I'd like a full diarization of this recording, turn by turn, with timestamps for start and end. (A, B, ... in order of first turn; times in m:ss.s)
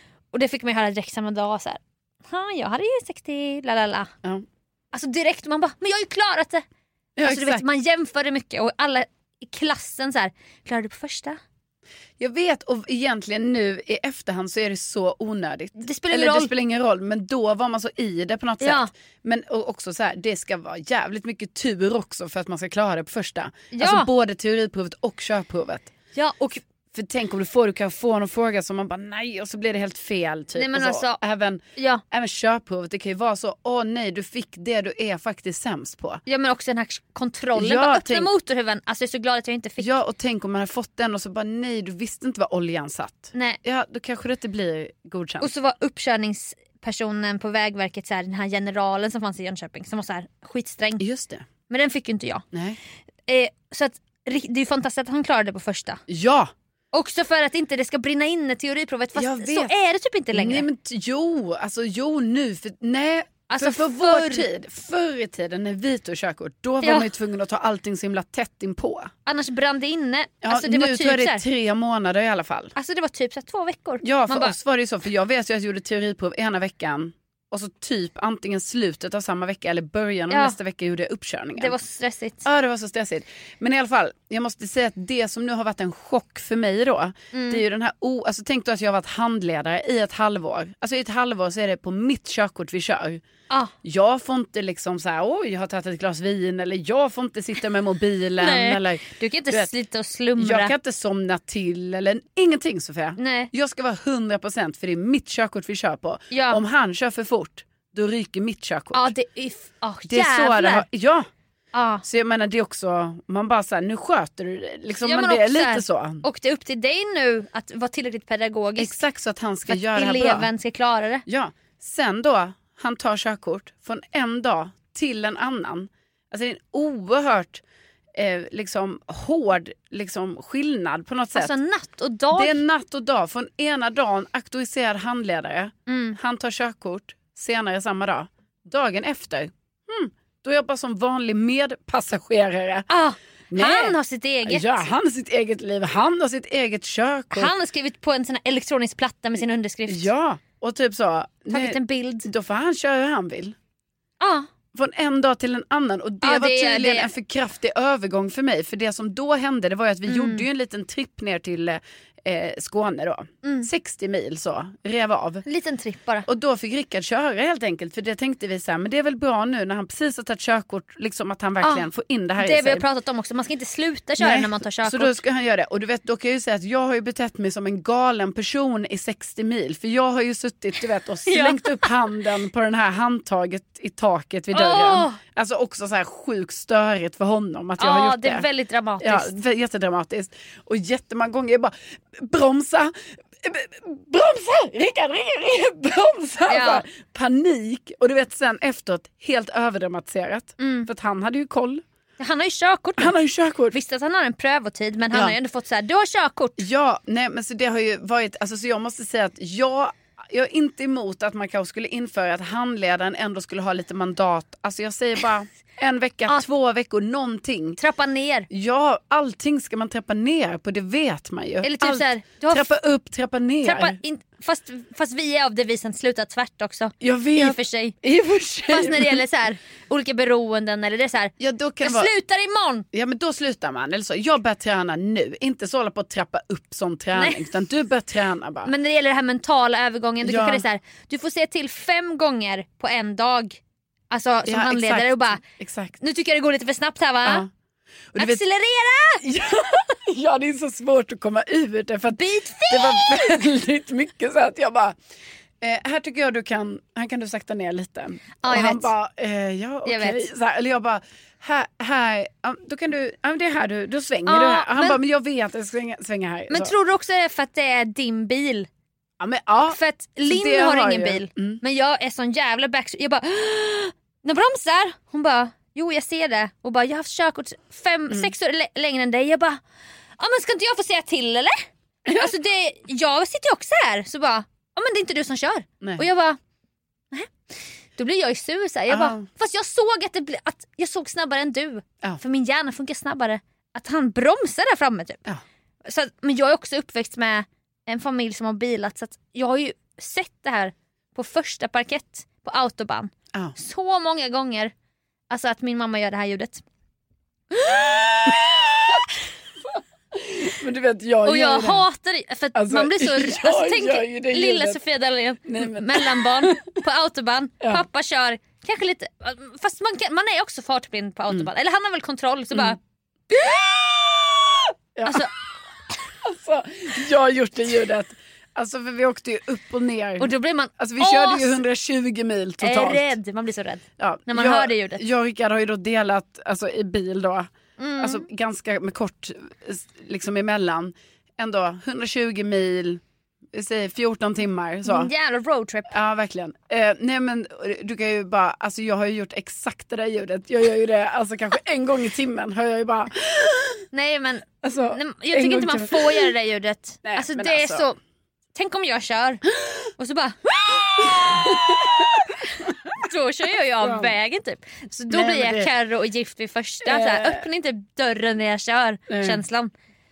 0:00.3-0:04.1 A
0:04.9-0:06.6 A
0:07.2-0:07.6 B
0:07.2-0:11.4 A
0:12.2-0:25.9 B
0:15.8-0:16.5 A
0:18.6-0:18.9 A
0:23.7-0:24.1 A
0:26.1-0:26.6 A
0:26.9-0:36.2 B
0:30.6-0:31.2 A
0:31.8-0:32.0 A
0:36.3-0:40.0 A
0:37.6-0:38.3 B
0:39.8-0:45.5 B
0:43.3-0:43.6 A
0:45.4-0:51.0 A
0:51.0-0:51.4 B
0:51.7-0:52.4 A
0:52.5-0:52.8 B
0:53.3-0:56.0 A
0:56.1-0:56.5 B
0:56.9-1:00.7 A
0:59.2-0:59.8 B
1:00.3-1:09.1 B
1:03.5-1:04.5 A
1:06.8-1:07.1 A
1:09.3-1:11.4 A
1:10.4-1:12.7 B
1:12.8-1:14.6 A
1:14.0-1:21.8 B
1:20.3-1:20.6 A
1:21.6-1:22.4 A
1:22.4-1:33.2 B
1:27.3-1:27.6 A
1:33.8-1:39.7 B
1:38.4-1:40.7 A
1:40.4-1:49.1 B
1:43.2-1:43.5 A
1:46.3-1:46.6 A
1:48.9-1:50.9 A
1:50.1-1:51.3 B
1:51.7-1:52.0 A
1:52.0-1:56.2 B
1:55.0-1:59.0 A
1:58.8-2:00.5 B
1:59.7-2:01.2 A
2:01.3-2:07.6 B
2:08.2-2:11.6 B
2:11.4-2:12.6 A
2:12.3-2:22.9 B
2:15.9-2:16.2 A
2:22.9-2:24.9 A
2:23.5-2:27.5 B
2:27.3-2:30.1 A
2:29.9-2:33.6 B
2:31.5-2:32.3 A
2:34.2-2:34.5 A
2:34.7-2:45.4 B
2:36.2-2:37.1 A
2:40.1-2:40.4 A
2:43.4-2:43.7 A
2:45.4-2:46.3 A
2:46.3-2:52.8 B
2:52.4-2:55.2 A
2:54.2-3:08.5 B
3:01.3-3:01.9 A
3:04.5-3:05.2 A
3:07.8-3:09.3 A
3:09.0-3:21.8 B
3:16.5-3:16.8 A
3:20.6-3:20.9 A
3:22.2-3:23.2 A
3:23.0-3:23.8 B
3:23.7-3:26.6 A
3:26.6-3:37.8 B
3:37.8-3:38.5 A
3:38.5-3:44.0 B
3:41.6-3:42.7 A
3:43.6-3:48.0 A
3:47.0-3:49.2 B
3:48.7-3:52.9 A
3:51.4-3:52.1 B
3:52.9-3:58.7 B
3:57.2-3:57.4 A
3:58.6-4:05.4 A
4:00.2-4:00.6 B
4:04.5-4:06.0 B
4:06.0-4:07.4 A
4:08.1-4:08.4 B
4:08.2-4:09.2 A
4:09.2-4:15.0 B
4:12.1-4:13.2 A
4:15.6-4:26.8 B
4:18.4-4:18.9 A
4:19.8-4:20.3 A
4:24.3-4:25.0 A
4:26.5-4:28.7 A
4:29.2-4:31.6 B
4:29.6-4:39.6 A
4:40.2-4:46.4 A
4:42.1-4:42.3 B
4:48.0-4:55.2 A
4:48.9-4:49.3 B
4:55.8-5:04.7 A
5:05.3-5:06.6 A
5:07.6-5:08.4 A
5:08.3-5:08.6 B
5:09.7-5:11.9 B
5:11.2-5:22.8 A
5:12.6-5:14.8 B
5:15.4-5:16.6 B
5:23.3-5:24.1 A
5:25.0-5:25.2 B
5:25.0-5:25.3 A
5:26.2-5:33.2 B
5:30.2-5:31.6 A
5:32.6-5:35.0 A
5:34.0-5:43.0 B
5:37.8-5:38.2 A
5:43.5-5:45.1 B
5:44.9-5:45.9 A
5:45.9-5:53.8 B
5:53.9-5:58.0 A
5:54.6-5:56.3 B
5:57.0-5:57.9 B
5:58.5-5:59.4 A
6:00.0-6:09.7 A
6:03.8-6:04.1 B
6:05.1-6:05.7 B
6:06.9-6:07.4 B
6:09.1-6:09.4 B